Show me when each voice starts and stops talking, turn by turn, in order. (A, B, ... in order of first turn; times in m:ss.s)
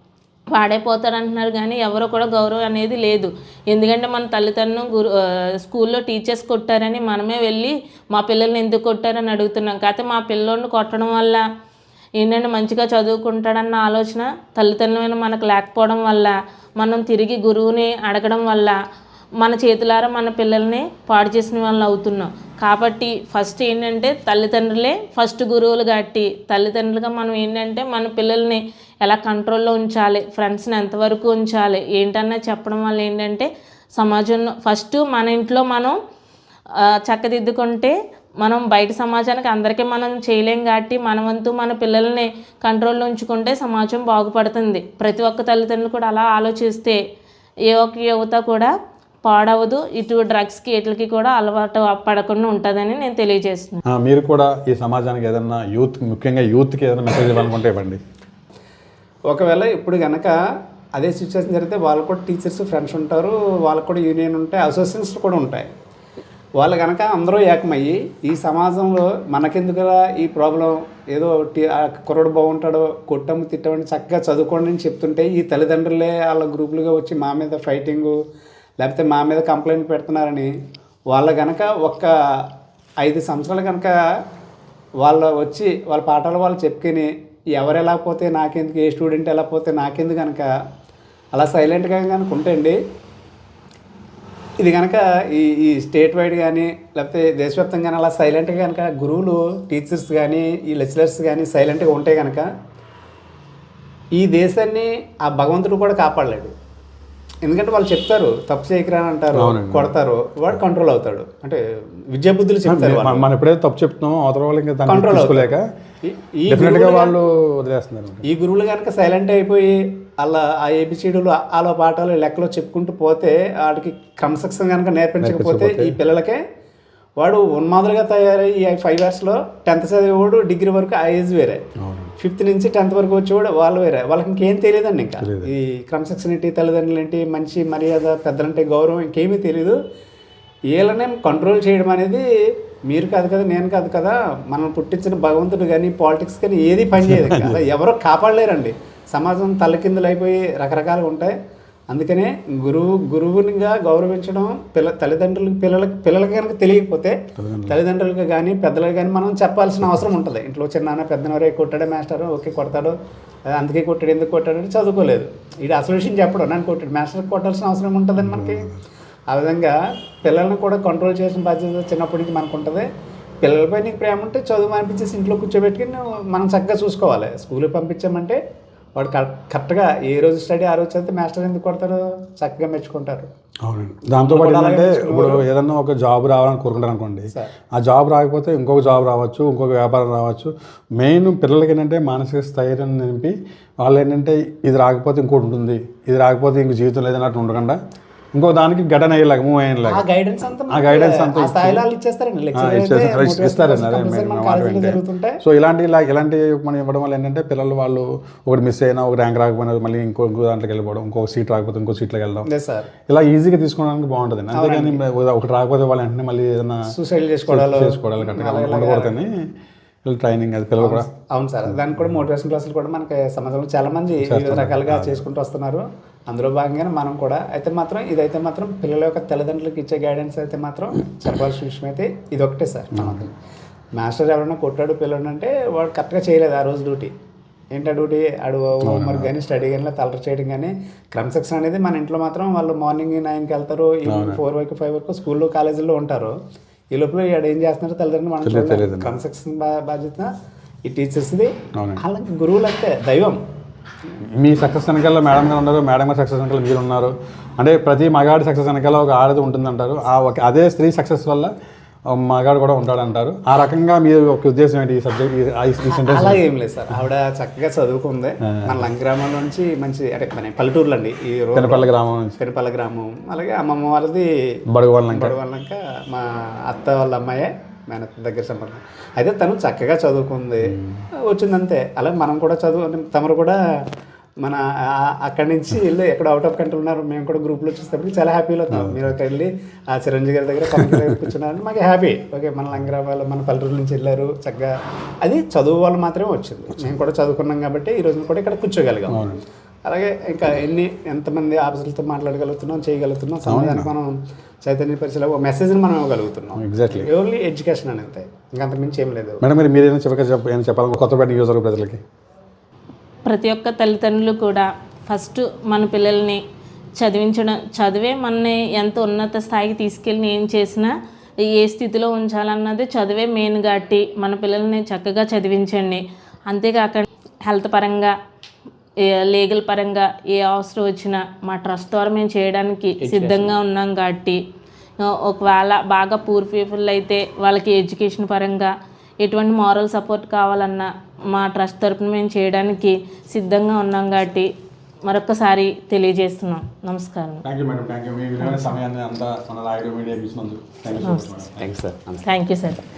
0:00.5-0:11.4 A
0:12.2-0:18.8 A
0:19.4-0:36.0 A
0:36.8-0:47.0 A
0:47.7-0:48.7 A
0:49.2-0:53.8 A
0:53.9-0:58.0 B
0:59.3-1:00.3 C
1:01.0-1:05.7 C
1:06.6-1:18.2 C
1:18.8-1:20.5 C
1:21.1-1:22.1 C
1:23.0-1:23.9 C
1:25.0-1:30.5 C
1:31.3-1:32.8 C
1:34.6-1:42.5 C
1:44.2-1:46.5 C
1:47.4-1:51.6 C
1:49.4-1:49.9 B
1:52.1-1:53.3 C
1:52.7-1:55.6 B
1:54.9-1:57.2 C
1:56.5-1:58.2 B
1:58.2-2:06.4 C
2:05.2-2:06.0 B
2:07.2-2:11.6 C
2:11.8-2:12.1 B
2:12.2-2:19.8 C
2:15.2-2:15.5 B
2:20.7-2:22.2 C
2:22.9-2:31.3 C
2:27.0-2:27.6 B
2:31.9-2:42.9 C
2:37.4-2:37.8 B
2:43.5-2:48.7 C
2:48.2-2:48.6 B
2:49.3-2:52.8 C
2:53.4-2:58.4 C
2:59.0-3:03.3 C
3:03.6-3:17.8 B
3:04.2-3:05.4 C
3:18.4-3:20.0 B
3:19.9-3:25.4 C
3:20.7-3:21.8 B
3:22.6-3:32.5 B
3:32.5-3:32.9 C
3:33.1-3:36.8 B
3:34.5-3:35.0 C
3:36.9-3:39.2 C
3:37.5-3:39.4 B
3:40.0-3:41.1 B
3:40.8-3:53.3 C
3:44.2-3:45.2 B
3:53.0-3:53.2 B
3:53.9-3:57.1 C
3:57.7-4:06.3 C
3:58.9-3:59.3 B
4:04.1-4:04.4 B
4:06.9-4:10.3 C
4:08.4-4:09.2 B
4:10.9-4:13.4 C
4:14.4-4:21.5 B
4:22.1-4:26.4 B
4:25.9-4:34.3 C
4:31.6-4:32.4 B
4:34.7-4:35.4 B
4:35.1-4:40.7 C
4:40.7-4:41.0 B
4:41.3-4:43.6 C
4:44.4-4:59.3 C
4:48.7-4:49.1 B
4:50.8-4:51.1 B
4:59.1-4:59.4 B
4:59.9-5:04.1 C
5:03.5-5:03.9 B
5:04.6-5:09.4 C
5:06.6-5:07.1 B
5:09.4-5:12.0 B
5:13.3-5:16.4 A
5:17.0-5:28.1 A
5:29.0-5:34.4 A
5:33.0-5:33.6 C
5:35.0-5:44.5 A
5:45.1-5:47.4 A
5:47.4-5:51.7 B
5:48.4-5:48.8 A
5:51.0-5:51.4 A
5:51.6-5:52.3 C
5:52.2-5:52.8 A